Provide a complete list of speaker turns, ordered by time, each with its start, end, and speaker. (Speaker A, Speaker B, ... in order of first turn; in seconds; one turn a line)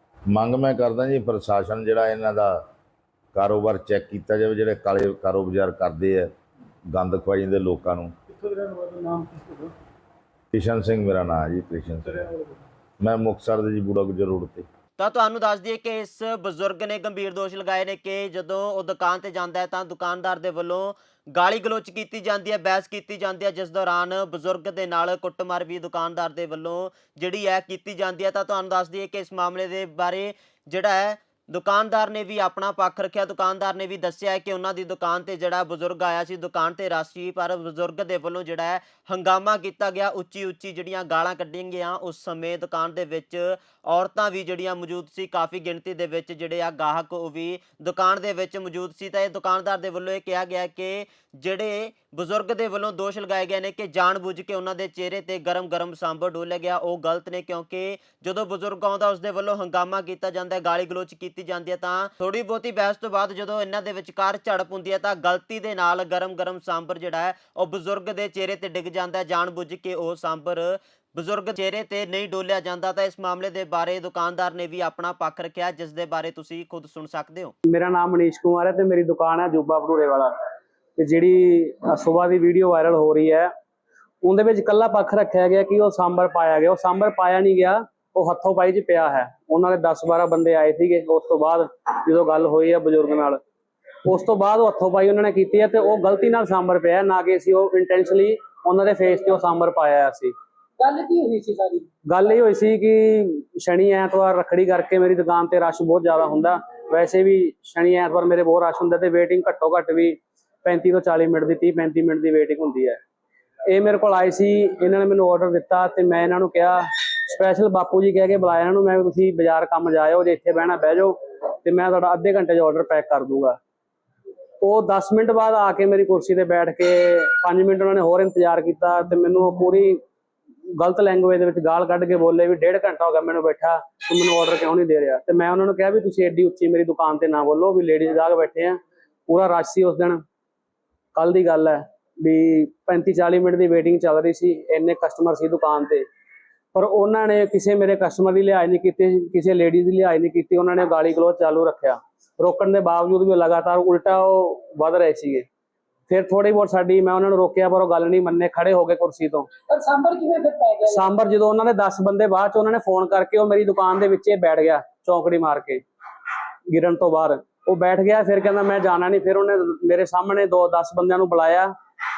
Speaker A: 0.3-2.6
Speaker A: 3.3-6.3
Speaker A: 6.9-8.1
Speaker B: 8.3-9.7
Speaker A: 10.5-12.2
Speaker B: 12.0-12.6
Speaker A: 13.0-14.7
Speaker C: 15.0-77.5
Speaker D: 77.7-80.3
Speaker D: 81.0-83.5
Speaker D: 84.2-93.4
Speaker D: 94.0-100.3
Speaker E: 100.8-101.9
Speaker D: 102.1-113.0
Speaker D: 113.7-123.6
Speaker D: 124.6-130.0
Speaker D: 130.8-138.8
Speaker D: 139.3-140.2
Speaker D: 141.2-146.0
Speaker D: 146.7-155.4
Speaker D: 156.1-159.5
Speaker E: 159.7-161.1
Speaker D: 160.8-165.8
Speaker D: 166.7-171.7